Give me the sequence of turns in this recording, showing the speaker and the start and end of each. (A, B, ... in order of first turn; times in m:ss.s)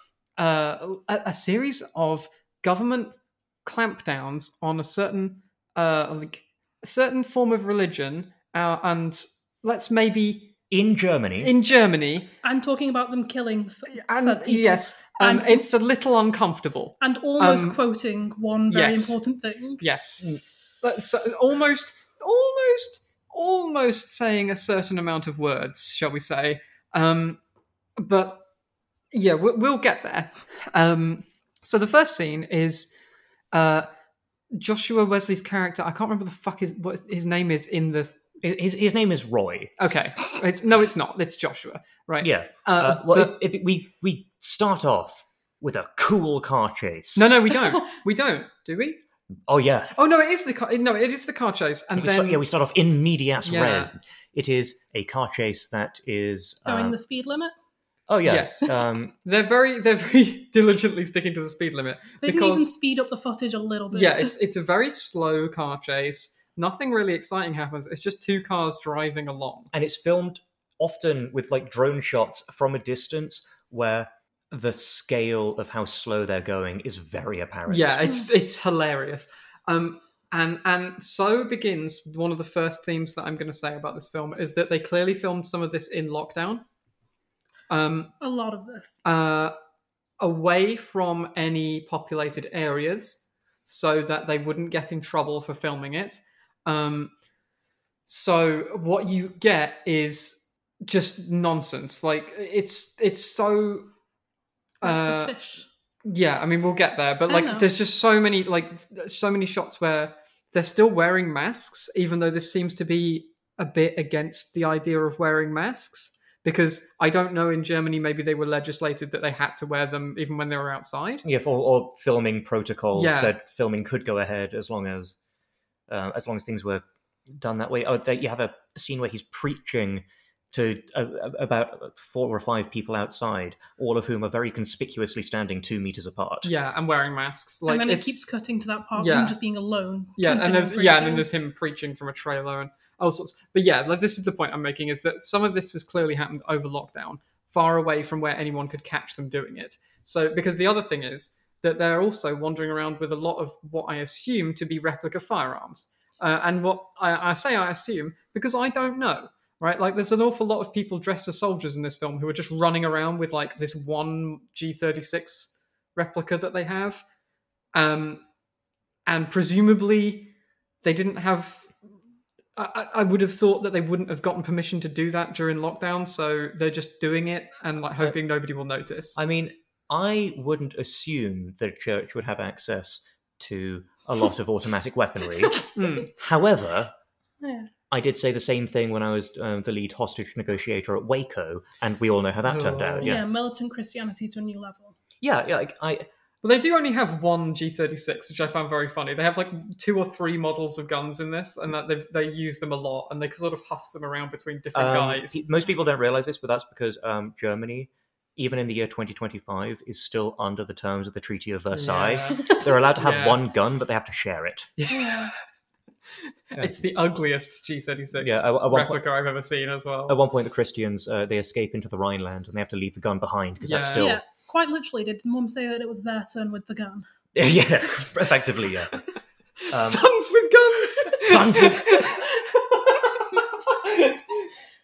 0:00.4-0:10.5 A
0:10.7-0:11.5 B
0:11.4-0:12.3 A
0:12.4-0:15.6 C
0:13.9-0:17.8 A
0:17.0-0:19.8 C
0:18.7-0:19.2 A
0:19.8-0:27.4 A
0:28.0-0:28.4 A
0:29.1-0:32.9 A
0:33.5-0:33.9 A
0:34.5-0:38.2 A
0:38.4-0:39.7 B
0:39.8-0:43.4 A
0:42.2-0:47.3 B
0:47.2-0:49.0 A
0:49.5-0:50.0 B
0:50.0-0:52.4 A
0:52.0-0:57.0 B
0:53.4-0:53.9 A
0:56.6-0:57.5 C
0:58.1-0:59.1 B
0:58.2-1:02.7 A
1:02.2-1:04.3 C
1:03.9-1:09.7 A
1:09.7-1:18.2 B
1:17.7-1:26.6 A
1:27.7-1:28.1 A
1:28.2-1:29.0 C
1:29.0-1:29.5 A
1:30.2-1:37.1 A
1:38.1-1:43.9 A
1:44.8-1:45.4 A
1:44.8-1:45.6 C
1:46.0-2:01.2 A
1:47.3-1:47.7 C
2:01.2-2:05.2 B
2:02.9-2:03.4 A
2:05.9-2:06.8 B
2:07.4-2:16.5 B
2:16.4-2:18.2 A
2:17.6-2:21.3 C
2:19.0-2:19.4 A
2:20.2-2:47.0 A
2:47.7-2:48.2 A
2:49.0-2:51.7 A
2:52.6-2:59.2 A
2:59.2-3:06.9 B
3:05.7-3:06.1 A
3:07.4-3:07.7 C
3:07.9-3:13.2 B
3:12.5-3:13.2 A
3:13.0-3:15.0 C
3:15.2-3:16.0 B
3:16.4-3:25.4 A
3:24.7-3:34.7 B
3:31.7-3:33.4 A
3:34.8-3:35.3 A
3:34.9-3:35.3 C
3:36.5-3:40.2 A
3:36.6-3:36.8 B
3:38.1-3:39.0 B
3:40.1-3:44.2 B
3:43.6-3:44.1 A
3:44.0-3:47.0 C
3:47.4-3:49.0 B
3:49.6-3:54.5 A
3:49.7-3:50.0 B
3:51.1-3:52.1 B